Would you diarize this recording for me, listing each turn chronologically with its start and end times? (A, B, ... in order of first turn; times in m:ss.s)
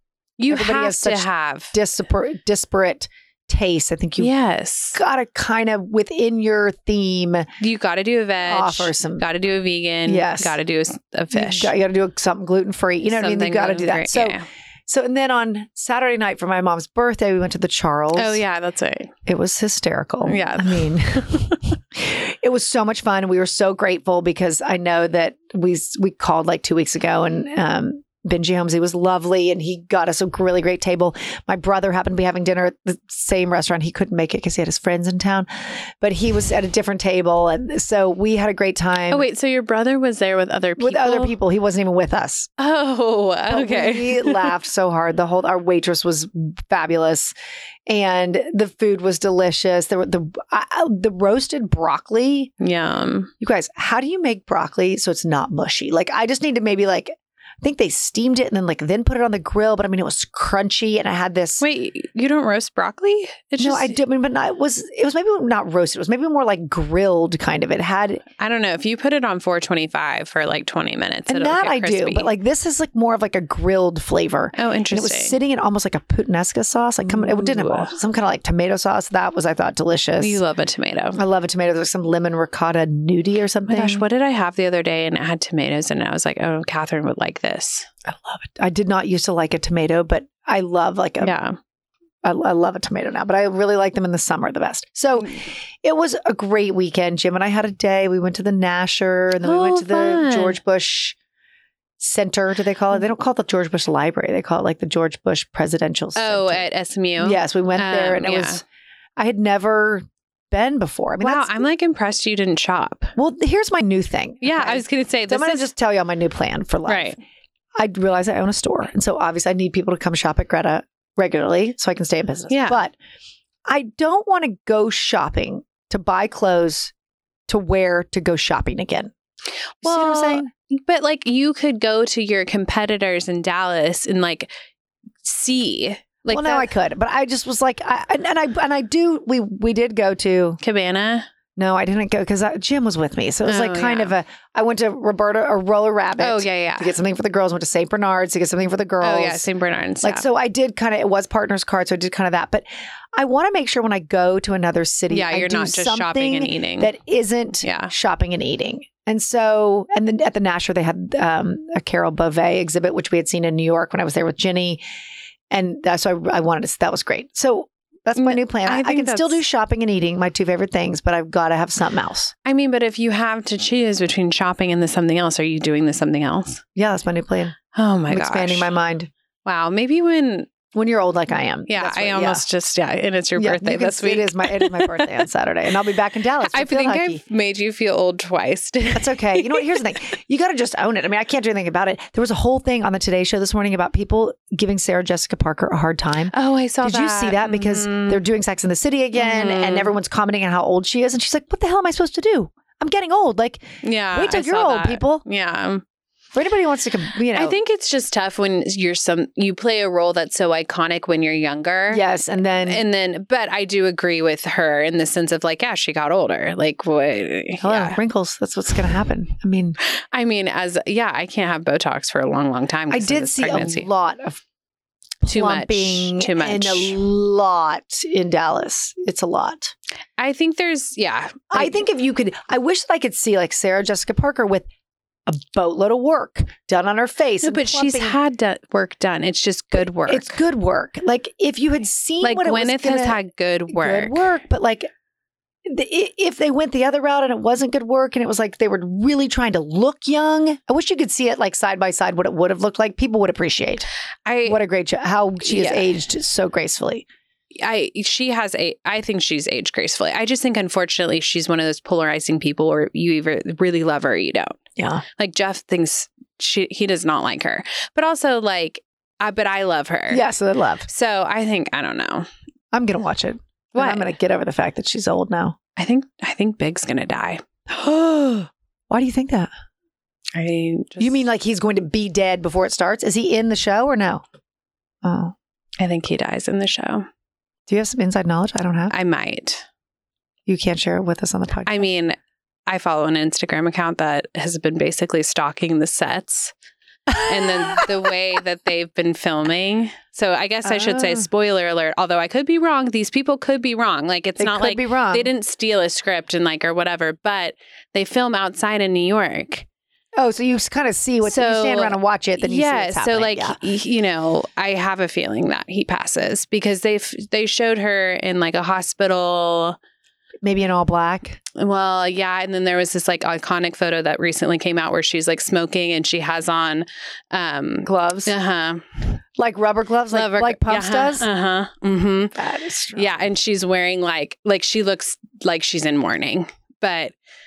0:00.4-0:01.7 A
0:00.5-0:04.3 B
0:04.2-0:05.0 A
0:04.9-0:07.5 B
0:07.6-0:11.7 A
0:08.4-0:09.2 B
0:10.0-0:10.6 B
0:11.3-0:18.4 B
0:13.1-0:14.4 A
0:18.1-0:19.1 A
0:19.2-0:39.2 B
0:20.2-0:21.6 A
0:39.1-0:41.4 A
0:40.8-0:42.5 B
0:42.6-0:44.5 A
0:43.5-0:47.3 B
0:47.9-0:52.5 B
0:52.6-0:53.3 A
0:53.4-1:01.6 B
1:01.6-1:04.0 A
1:03.6-1:08.2 B
1:08.4-1:12.3 A
1:11.3-1:20.4 B
1:14.5-1:15.4 A
1:17.0-1:17.9 A
1:20.2-1:21.2 A
1:21.1-1:24.0 B
1:23.7-1:27.9 A
1:28.1-1:31.4 B
1:31.2-1:31.6 A
1:32.2-1:41.2 B
1:39.4-1:40.6 A
1:42.0-1:46.6 B
1:46.2-1:48.6 A
1:47.2-1:48.6 B
1:49.2-1:51.6 B
1:51.2-1:53.1 A
1:53.2-1:57.2 B
1:54.4-1:55.7 A
1:56.8-1:57.2 A
1:57.8-2:02.9 B
2:02.5-2:02.8 A
2:03.6-2:06.9 B
2:07.5-2:09.1 B
2:09.8-2:10.5 B
2:09.8-2:14.5 A
2:15.2-2:16.7 A
2:16.3-2:20.6 B
2:20.6-2:21.3 A
2:21.6-2:29.4 B
2:23.4-2:24.1 A
2:26.2-2:26.9 A
2:29.0-2:30.2 A
2:30.0-2:44.8 B
2:35.1-2:36.9 A
2:37.6-2:37.9 A
2:45.5-2:52.3 B
2:48.2-2:49.4 A
2:52.4-2:56.6 A
2:56.8-2:57.6 B
2:57.7-2:58.7 A
2:58.1-2:59.1 B
2:59.4-3:00.5 A
3:00.7-3:02.4 B
3:01.7-3:05.1 A
3:03.4-3:07.2 B
3:06.5-3:09.6 A
3:08.9-3:25.2 B
3:16.3-3:18.2 A
3:19.1-3:19.9 A
3:23.8-3:25.8 A
3:26.3-3:27.6 B
3:27.3-3:32.0 A
3:31.9-3:32.8 B
3:32.6-3:38.0 A
3:37.6-3:39.8 B
3:40.1-3:43.9 A
3:42.9-3:44.4 B
3:45.2-3:49.7 B
3:45.2-3:47.0 A
3:50.2-3:51.8 A
3:51.5-3:54.7 B
3:55.3-3:58.2 B
3:57.4-4:00.4 A
3:59.8-4:03.2 B
4:02.2-4:04.2 A
4:03.7-4:04.9 B
4:05.6-4:13.9 B
4:14.2-4:14.6 A
4:14.4-4:17.0 B
4:15.4-4:15.9 A
4:17.6-4:24.6 A
4:24.8-4:25.0 B
4:25.1-4:30.2 A
4:30.1-4:30.9 B
4:30.9-4:32.3 A
4:32.7-4:35.6 B
4:33.7-4:34.1 A
4:35.8-4:37.4 A
4:37.7-4:39.5 B
4:40.3-4:41.2 A
4:41.0-4:44.2 B
4:45.0-4:45.3 B
4:45.8-4:47.1 A
4:47.7-4:48.9 B
4:48.9-4:49.6 A
4:50.5-4:51.9 B
4:51.6-4:52.2 A
4:52.7-4:56.5 A
4:57.1-4:58.1 B
4:57.2-5:09.6 A
5:00.6-5:01.2 B
5:04.4-5:05.3 B
5:10.2-5:13.6 B
5:11.2-5:19.8 A
5:20.4-5:21.4 B
5:21.5-5:28.8 A
5:27.8-5:28.3 B
5:29.4-5:31.3 B
5:30.1-5:32.4 A
5:32.4-5:33.1 B
5:32.9-5:37.1 A